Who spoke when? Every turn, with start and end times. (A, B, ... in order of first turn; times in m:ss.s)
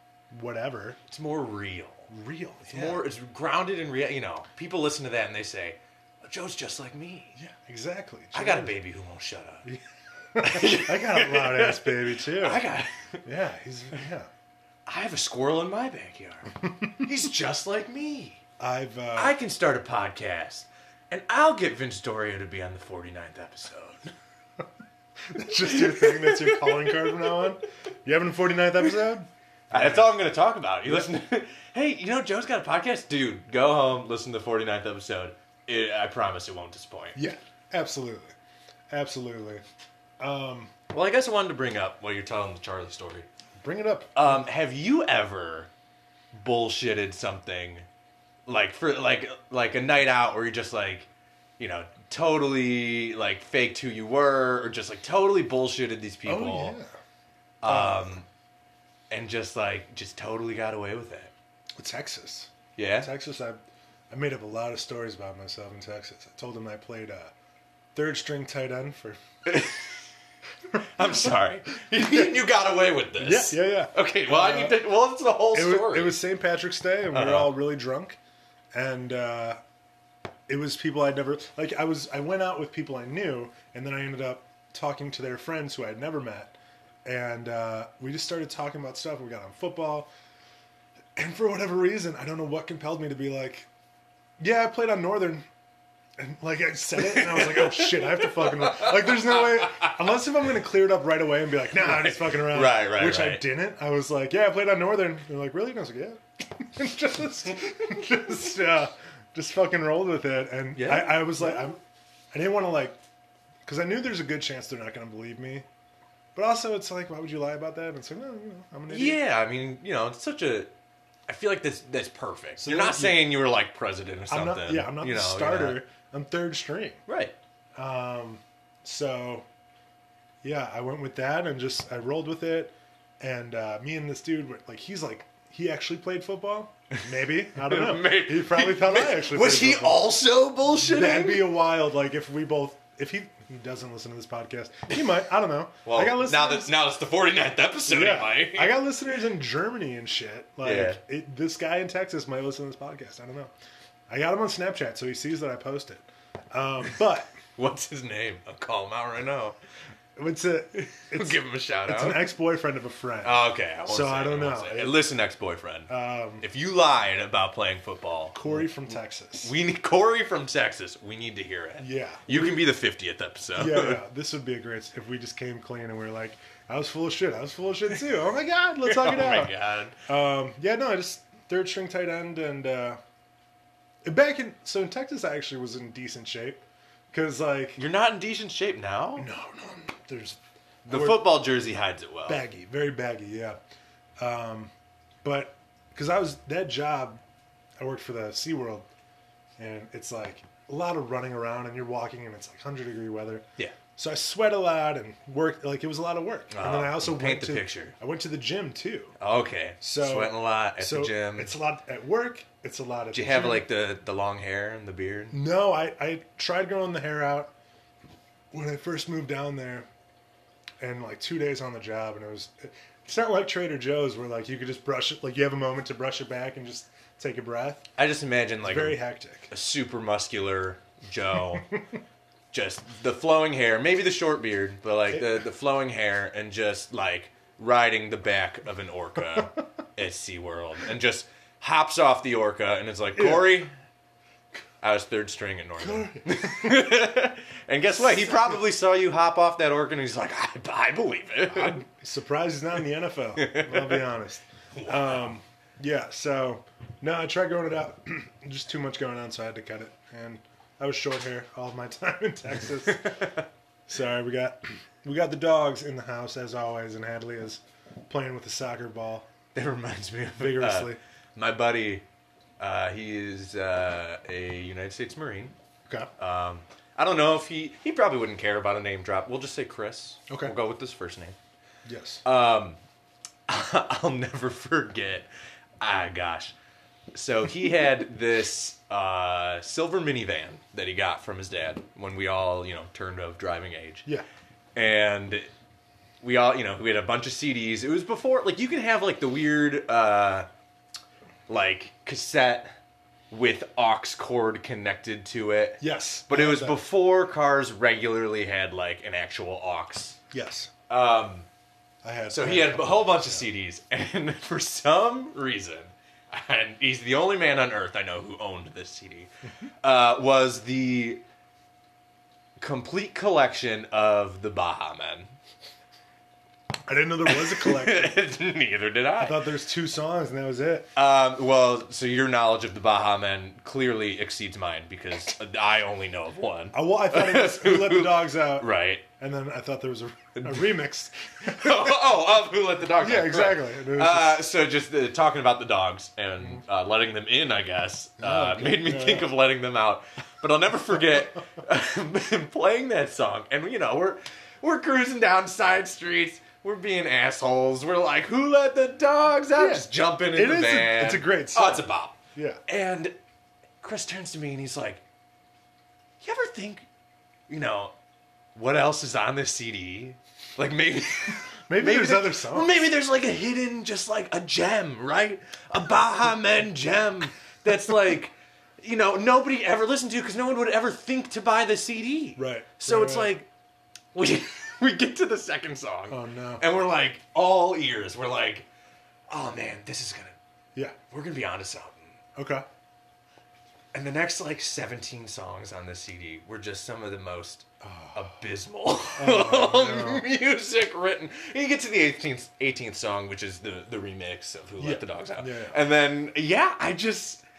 0:00.3-0:01.0 A
0:01.1-0:02.1 B
0:02.1-0:03.1 A
0:02.7-0:07.4 B
0:07.3-0:08.7 A
0:08.3-0:09.7 B
0:10.3-0:12.6 A
0:10.4-0:13.2 B
0:13.2-0:14.3 A
0:14.9-0:18.4 B
0:16.6-0:17.1 A
0:18.6-0:19.4 A
0:19.1-0:24.0 B
0:25.3-0:30.2 A
0:25.6-0:27.4 B
0:29.7-0:37.2 B
0:37.2-0:38.3 A
0:38.9-0:39.6 A
0:40.2-0:40.7 A
0:40.9-0:43.3 B
0:43.6-0:44.4 A
0:44.1-0:45.7 B
0:46.3-0:47.8 B
0:48.5-0:51.1 B
0:51.6-0:56.8 B
0:56.2-0:56.9 A
0:57.6-0:58.2 B
0:57.6-0:58.2 A
0:59.1-1:01.3 B
1:01.8-1:07.3 A
1:02.8-1:03.1 B
1:07.9-1:09.2 A
1:09.4-1:09.9 B
1:10.7-1:11.4 A
1:11.0-1:16.2 B
1:12.0-1:12.3 A
1:13.2-1:14.8 A
1:15.5-1:18.2 A
1:17.1-1:17.5 B
1:18.7-1:19.6 A
1:20.5-1:30.1 A
1:31.2-1:33.7 A
1:34.4-1:35.4 A
1:36.2-1:51.8 A
1:37.0-1:40.2 B
1:41.8-1:43.4 B
1:50.8-1:51.7 B
1:52.3-1:53.0 A
1:53.6-1:55.6 A
1:56.3-1:59.2 A
1:58.9-2:00.7 B
2:01.3-2:05.8 B
2:02.6-2:03.3 A
2:04.3-2:07.0 A
2:07.1-2:07.4 B
2:07.8-2:09.5 A
2:10.4-2:20.2 A
2:16.9-2:21.5 B
2:20.8-2:26.7 A
2:25.8-2:28.8 B
2:27.8-2:33.5 A
2:30.6-2:31.0 B
2:34.1-2:37.3 A
2:37.6-2:39.6 B
2:40.2-2:45.0 A
2:41.0-2:42.3 B
2:43.2-2:54.0 B
2:45.9-2:46.4 A
2:48.3-2:49.5 A
2:51.8-2:52.6 A
2:53.5-2:59.5 A
2:58.8-3:00.0 B
3:00.0-3:03.0 A
3:04.0-3:07.8 A
3:07.8-3:09.3 B
3:09.2-3:11.4 A
3:10.8-3:12.4 B
3:12.3-3:13.6 A
3:14.2-3:14.7 A
3:15.2-3:17.2 A
3:17.8-3:18.9 A
3:19.6-3:29.1 A
3:26.5-3:27.9 B
3:29.2-3:31.5 B
3:29.8-3:33.6 A
3:33.1-3:35.4 B
3:35.3-3:37.5 A
3:38.5-3:39.9 A
3:40.8-3:47.9 A
3:48.0-3:51.7 B
3:48.6-3:49.5 A
3:51.5-3:52.0 A
3:52.5-4:03.7 B
3:55.1-3:55.4 A
4:03.1-4:03.6 A
4:04.8-4:11.8 B
4:05.8-4:06.8 A
4:07.9-4:08.6 A
4:11.5-4:23.2 A
4:13.4-4:14.1 B
4:14.7-4:15.3 B
4:22.8-4:23.4 B
4:23.9-4:29.3 A
4:29.5-4:32.0 B
4:30.4-4:31.0 A
4:32.6-4:35.5 B
4:36.2-4:41.4 B
4:40.3-4:40.5 A
4:41.8-4:42.2 A
4:42.2-4:42.8 B
4:43.5-4:45.3 B
4:45.8-4:46.5 B
4:47.1-4:54.1 B
4:54.7-4:55.5 B
4:56.2-5:00.5 B
5:01.5-5:02.7 B
5:03.3-5:10.2 B
5:05.8-5:06.8 A
5:10.3-5:10.7 A
5:10.9-5:11.5 B
5:12.0-5:13.4 A
5:12.3-5:19.3 B
5:19.8-5:21.2 B
5:22.6-5:25.3 B
5:26.8-5:28.2 A
5:27.2-5:29.4 B
5:29.2-5:30.9 A
5:30.9-5:39.0 B
5:36.7-5:42.0 A
5:40.3-5:40.7 B
5:41.4-6:03.1 B
5:43.0-5:44.4 A
5:48.2-5:49.3 A
5:59.6-6:02.6 A
6:03.8-6:05.0 B
6:06.2-6:06.8 B
6:07.5-6:07.9 B
6:08.5-6:23.5 B
6:11.7-6:12.8 A
6:22.4-6:23.3 A
6:24.1-6:28.7 B
6:26.1-6:26.6 A
6:29.3-6:30.4 B
6:31.1-6:32.2 B
6:32.4-6:32.6 A
6:33.9-6:47.4 B
6:37.8-6:38.2 A
6:39.2-6:40.2 A
6:44.8-6:45.8 A